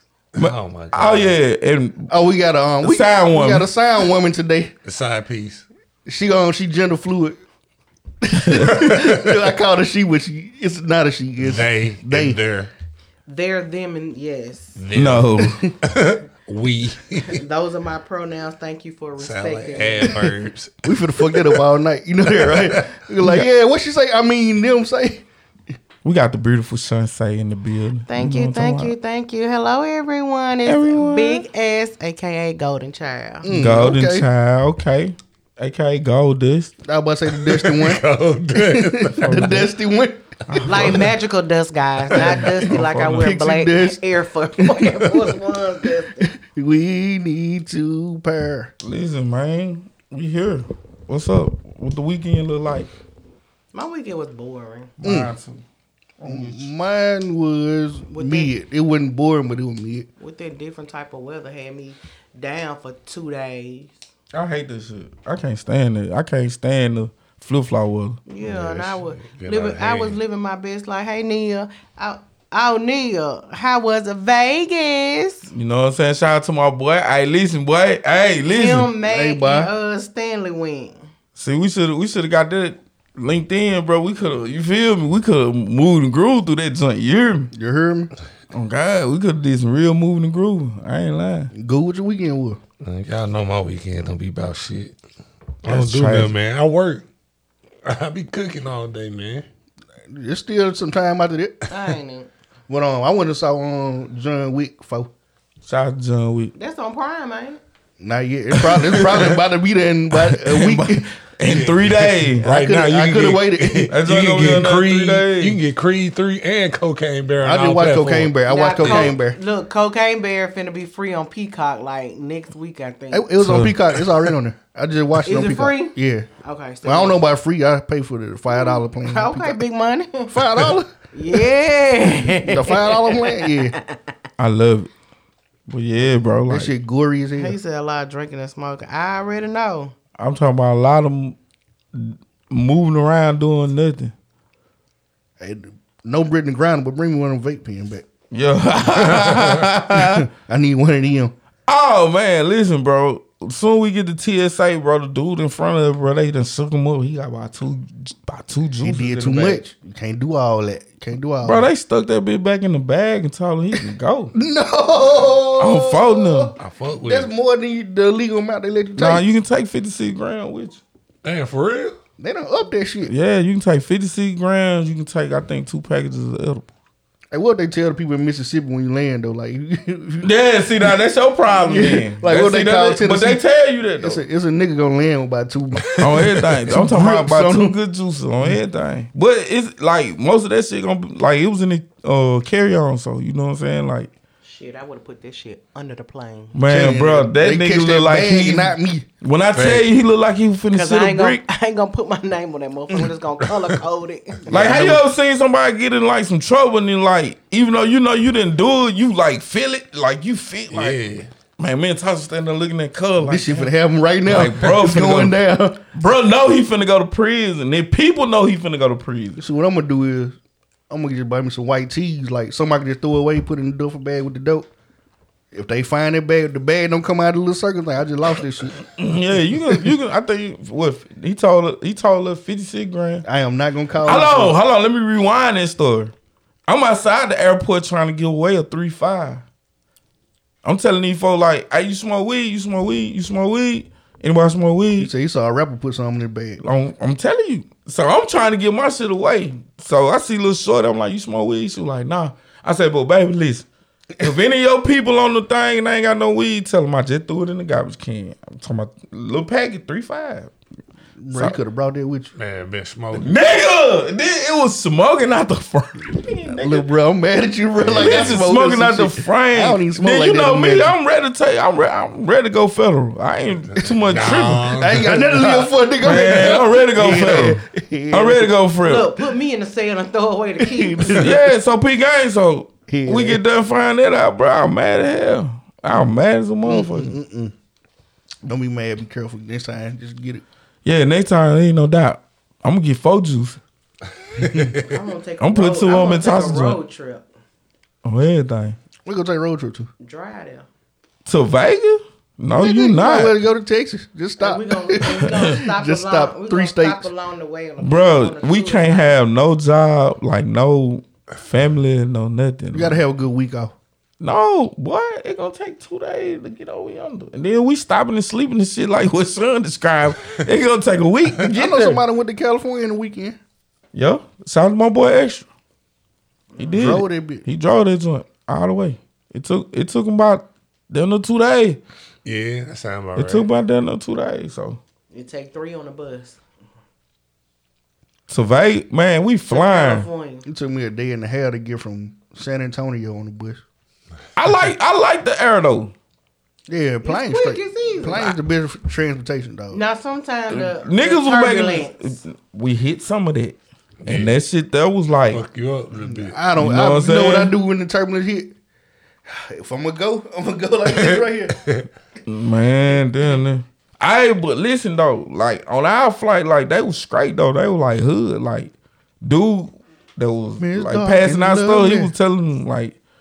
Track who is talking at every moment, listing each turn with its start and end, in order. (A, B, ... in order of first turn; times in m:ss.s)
0:00.3-0:01.4 A
0:00.4-0:02.1 B
0:02.1-0:04.7 C
0:02.8-0:03.7 B
0:04.8-0:05.6 A
0:06.0-0:07.4 C
0:08.2-0:12.4 C
0:08.3-0:08.8 B
0:08.8-0:09.4 A
0:11.4-0:12.7 A
0:13.3-0:14.8 D
0:14.8-0:17.4 A
0:14.9-0:15.7 B
0:15.4-0:15.7 C
0:17.3-0:20.2 D
0:19.2-0:21.6 A
0:20.8-0:25.2 C
0:22.3-0:22.8 A
0:23.2-0:23.5 B
0:26.0-0:28.9 B
0:28.1-0:33.5 D
0:30.6-0:31.4 B
0:33.4-0:34.2 C
0:33.4-0:36.7 B
0:36.8-0:38.0 C
0:37.3-0:39.4 A
0:38.5-0:40.2 C
0:39.2-0:39.7 B
0:40.5-0:41.1 B
0:40.6-0:46.3 D
0:42.5-0:43.3 B
0:43.1-0:44.0 C
0:44.6-0:45.4 C
0:46.3-0:48.7 C
0:48.8-0:52.9 B
0:53.7-0:54.9 D
0:55.0-0:55.6 B
0:55.0-0:55.3 C
0:56.2-0:56.7 B
0:56.2-1:00.1 C
0:58.1-0:58.5 D
1:00.2-1:03.9 D
1:04.3-1:08.2 B
1:08.3-1:15.5 D
1:08.4-1:10.2 A
1:15.5-1:18.9 B
1:18.5-1:21.0 D
1:19.0-1:19.7 C
1:21.4-1:27.5 B
1:27.5-1:28.1 C
1:28.5-1:31.5 B
1:31.5-1:32.6 C
1:32.8-1:35.0 A
1:35.6-1:37.0 A
1:35.6-1:36.3 B
1:37.8-1:39.4 A
1:40.1-1:41.6 C
1:41.7-1:42.3 D
1:42.7-1:45.1 C
1:45.6-1:46.5 B
1:46.5-1:47.6 D
1:48.0-1:51.0 C
1:48.6-1:49.2 B
1:50.1-1:52.5 B
1:51.4-1:59.1 A
1:52.4-1:53.9 C
1:53.9-1:55.6 B
1:57.4-1:59.4 C
1:58.4-2:03.3 D
2:03.1-2:06.3 C
2:03.4-2:03.8 B
2:05.2-2:07.2 D
2:06.8-2:09.6 C
2:08.5-2:10.6 D
2:10.3-2:10.9 C
2:11.1-2:14.0 D
2:12.2-2:13.8 C
2:14.4-2:14.9 B
2:15.7-2:16.7 B
2:16.5-2:17.6 C
2:17.4-2:19.9 D
2:20.2-2:21.4 B
2:21.9-2:24.1 B
2:25.4-2:28.0 C
2:28.3-2:30.2 B
2:29.9-2:31.3 C
2:31.7-2:39.6 B
2:38.8-2:41.6 C
2:41.4-2:44.3 B
2:44.3-2:46.5 C
2:45.6-2:46.5 B
2:46.6-2:47.3 A
2:47.0-2:49.2 C
2:48.9-2:50.8 B
2:51.2-2:52.0 A
2:52.2-2:53.1 C
2:53.0-2:56.7 B
2:57.3-3:00.3 C
3:00.2-3:04.2 B
3:01.5-3:03.4 C
3:04.0-3:06.1 C
3:06.0-3:14.1 B
3:06.3-3:06.6 A
3:06.7-3:07.8 C
3:14.4-3:16.5 D
3:16.5-3:21.4 B
3:16.7-3:19.1 C
3:19.5-3:19.9 A
3:20.7-3:24.7 D
3:24.4-3:25.0 C
3:24.5-3:31.0 B
3:30.7-3:31.3 A
3:31.6-3:33.7 B
3:33.2-3:35.9 C
3:34.2-3:35.4 B
3:35.9-3:39.4 B
3:39.4-3:40.4 C
3:40.9-3:44.7 C
3:45.5-3:48.9 C
3:48.9-3:53.2 B
3:53.2-3:54.5 C
3:54.0-3:56.1 B
3:56.7-3:59.4 B
4:00.6-4:05.1 B
4:05.0-4:06.6 C
4:06.6-4:13.6 B
4:14.2-4:20.5 B
4:21.2-4:22.3 C
4:21.3-4:21.6 B
4:22.4-4:23.3 A
4:23.1-4:26.9 B
4:26.5-4:30.9 C
4:27.8-4:28.4 A
4:27.8-4:34.7 B
4:33.8-4:38.5 C
4:34.1-4:36.6 A
4:36.0-4:39.1 B
4:38.8-4:41.2 D
4:40.6-4:41.5 C
4:41.1-4:47.1 B
4:42.9-4:43.4 C
4:46.6-4:47.5 C
4:48.4-4:50.4 C
4:50.8-4:53.6 B
4:54.4-4:54.8 C
4:54.8-4:57.3 D
4:55.4-4:56.8 B
4:58.0-4:58.8 B
4:59.0-4:59.9 C
5:00.0-5:00.6 D
5:01.2-5:03.4 B
5:02.6-5:07.1 C
5:04.4-5:09.2 D
5:07.8-5:13.0 B
5:12.7-5:13.7 C
5:14.2-5:22.0 B
5:21.5-5:23.4 C
5:23.9-5:25.4 B
5:26.6-5:31.8 B
5:26.7-5:27.4 C
5:32.2-5:33.4 A
5:33.1-5:34.8 B
5:35.1-5:36.4 D
5:38.3-5:40.1 B
5:39.5-5:40.4 D
5:40.4-5:43.6 C
5:44.4-5:45.9 B
5:46.7-5:49.8 C
5:47.0-5:48.4 D
5:49.7-5:52.2 D
5:50.5-5:55.4 B
5:54.0-5:54.4 A
5:55.3-5:56.4 A
5:56.0-5:58.5 C
5:56.6-5:57.5 B
5:59.3-6:01.6 C
6:00.9-6:01.9 A
6:02.3-6:13.0 B
6:10.6-6:12.1 C